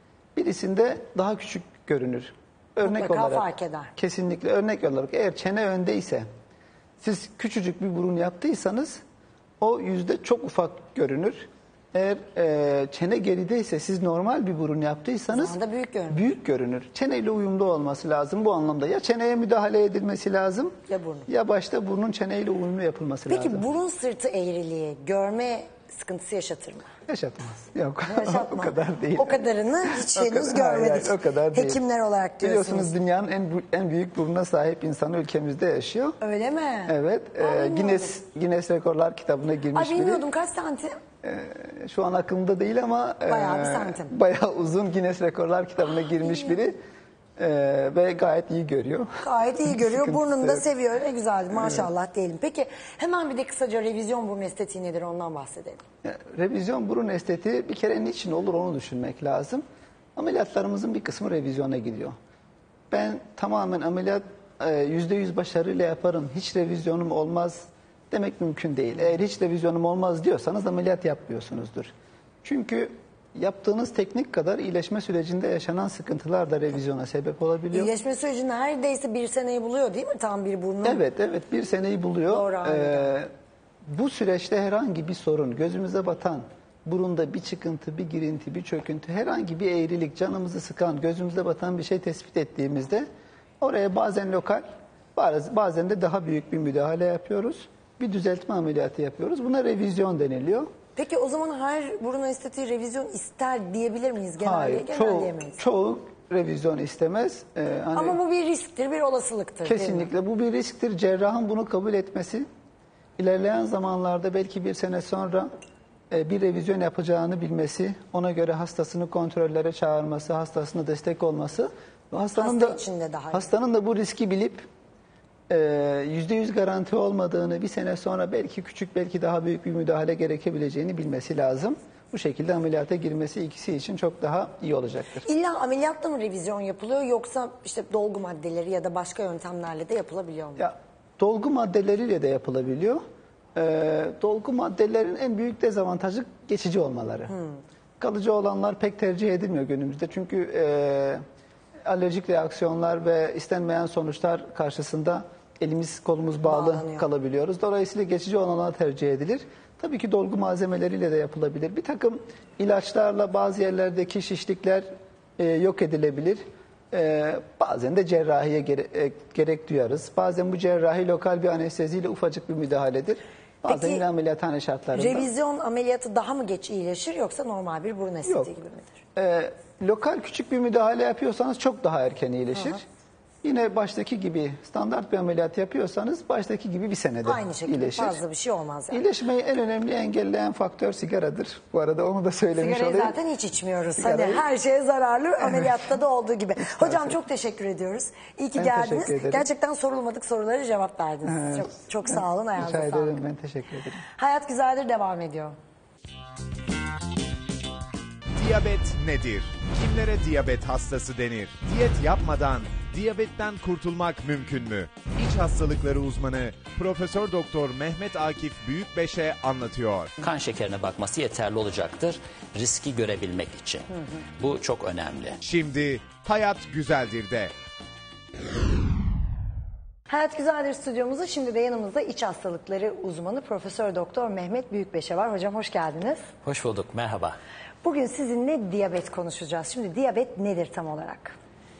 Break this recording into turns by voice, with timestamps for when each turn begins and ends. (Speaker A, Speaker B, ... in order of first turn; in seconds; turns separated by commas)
Speaker A: 0.3-6.3, Speaker B: 2.8-3.9, Speaker A: 7.0-9.0, Speaker A: 9.6-15.6, Speaker B: 15.3-16.3, Speaker A: 16.1-20.8, Speaker B: 20.9-21.3, Speaker A: 21.3-23.6, Speaker B: 23.3-26.9, Speaker A: 27.1-31.8, Speaker B: 28.1-32.9, Speaker A: 32.4-36.2, Speaker B: 36.2-38.1, Speaker A: 36.9-40.2, Speaker B: 39.7-41.0, Speaker A: 41.2-46.8, Speaker B: 43.3-44.1, Speaker B: 46.2-46.6, Speaker A: 47.4-49.1, Speaker B: 49.2-55.8, Speaker A: 49.7-50.6, Speaker A: 51.5-51.9, Speaker A: 56.0-59.6, Speaker A: 60.1-62.1, Speaker A: 62.9-71.9, Speaker A: 72.4-77.9, Speaker B: 77.7-81.0, Speaker A: 80.8-83.3, Speaker B: 82.3-83.1, Speaker A: 83.9-93.1, Speaker A: 93.6-100.7, Speaker B: 101.0-105.6, Speaker A: 104.4-108.2, Speaker B: 107.9-110.1, Speaker A: 109.7-112.5, Speaker A: 113.2-115.5, Speaker A: 116.1-122.8, Speaker B: 122.3-123.5, Speaker A: 123.3-124.7, Speaker A: 125.5-135.2, Speaker B: 135.2-140.7, Speaker A: 140.6-143.0, Speaker A: 143.5-147.3, Speaker B: 147.3-147.6, Speaker A: 148.0-151.2, Speaker A: 151.8-175.3, Speaker B: 156.5-157.1, Speaker B: 173.7-174.0, Speaker B: 174.9-179.0, Speaker A: 179.2-182.8, Speaker B: 182.5-182.8, Speaker A: 183.4-188.2, Speaker B: 187.2-189.0, Speaker A: 188.9-193.1, Speaker B: 192.5-203.2, Speaker A: 194.0-194.4, Speaker A: 196.7-197.1, Speaker A: 198.6-199.4, Speaker A: 201.3-204.0, Speaker B: 204.1-205.5, Speaker C: 208.3-220.1, Speaker D: 220.2-223.9, Speaker D: 224.4-225.4, Speaker C: 225.4-227.5, Speaker B: 230.1-236.2, Speaker D: 236.4-237.4, Speaker B: 237.8-241.3